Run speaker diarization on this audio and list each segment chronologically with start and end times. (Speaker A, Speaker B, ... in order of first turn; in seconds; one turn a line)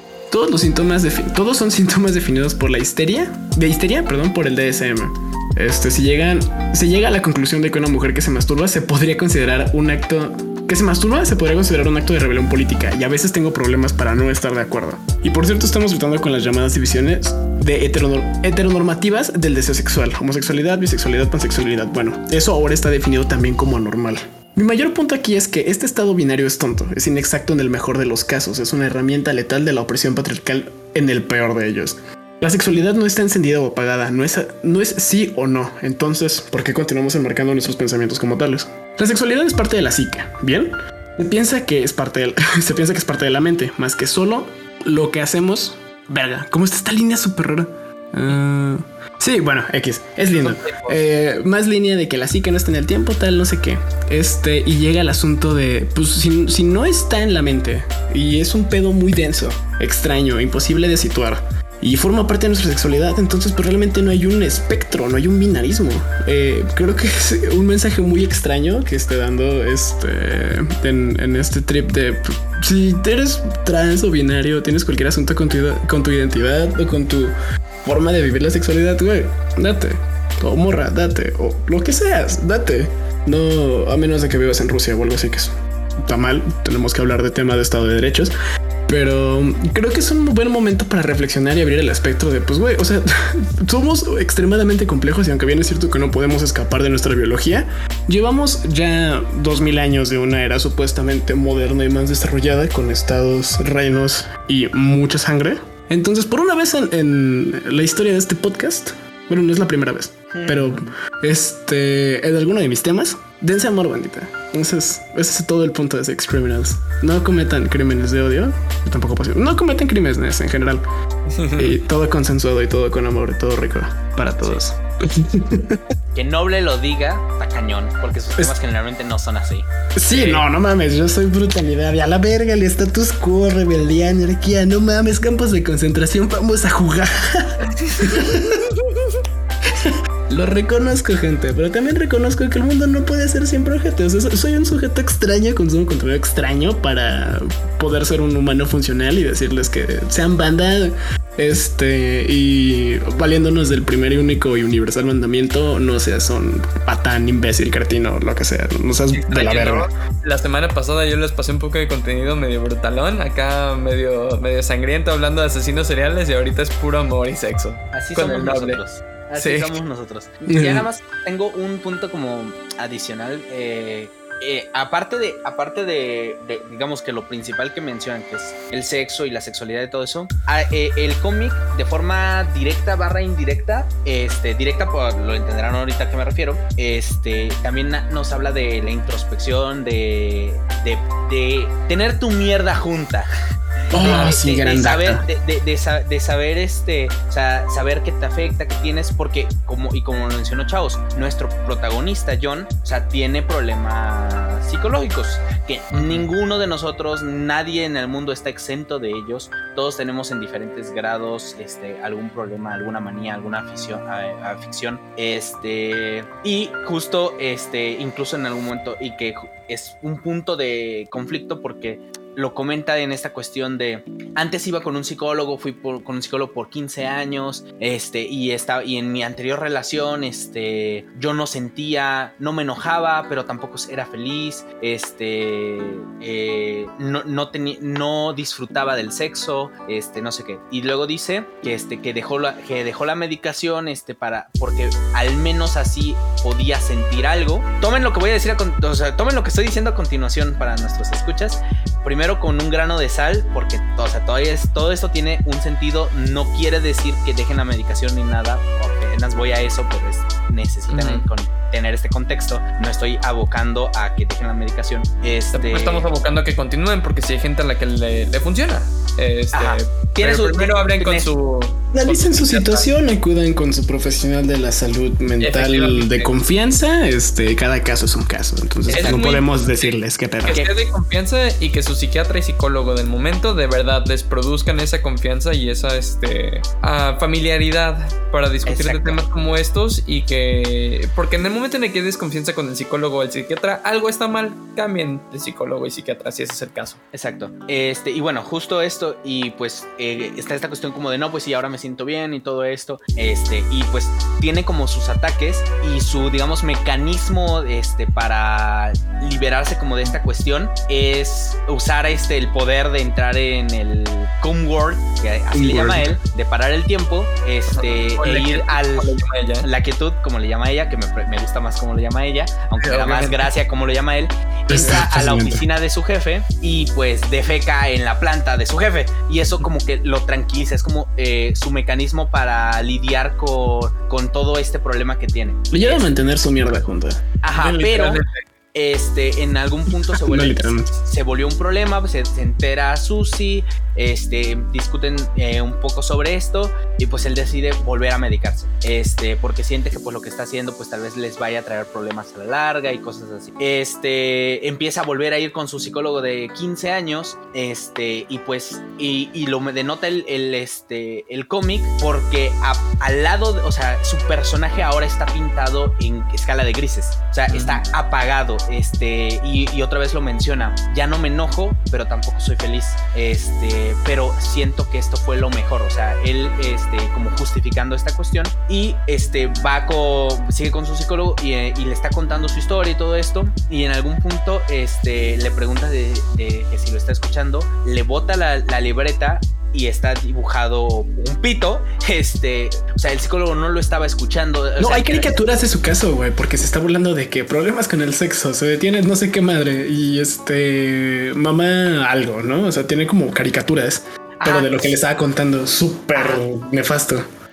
Speaker A: 0.3-88.3
Speaker B: 50.3-51.0
Speaker A: 88.9-120.8
Speaker C: 110.3-110.8
Speaker B: 121.3-121.8
Speaker A: 121.6-125.8
Speaker C: 126.2-129.7
Speaker A: 130.0-138.7
Speaker B: 130.1-130.4
Speaker B: 137.9-138.8
Speaker A: 139.8-159.9
Speaker B: 159.1-168.8
Speaker C: 167.9-193.3
Speaker B: 169.4-169.8
Speaker A: 170.5-170.9
Speaker A: 193.9-195.2
Speaker C: 193.9-266.1
Speaker B: 194.0-194.3
Speaker B: 205.9-206.3
Speaker B: 260.9-261.3
Speaker B: 265.5-272.9
Speaker C: 269.5-271.3
Speaker A: 271.9-280.6
Speaker B: 275.4-276.3
Speaker C: 278.9-279.3
Speaker B: 278.9-297.0
Speaker C: 288.7-289.2
Speaker C: 297.1-336.1
Speaker A: 315.5-316.1
Speaker B: 317.7-319.7
Speaker B: 322.8-323.5
Speaker A: 324.7-325.6
Speaker A: 335.7-338.1
Speaker C: 337.4-338.2
Speaker B: 337.9-338.4
Speaker C: 338.7-395.4
Speaker A: 340.1-340.9
Speaker B: 367.5-367.8
Speaker A: 394.8-407.2
Speaker C: 404.4-405.0
Speaker C: 406.1-406.4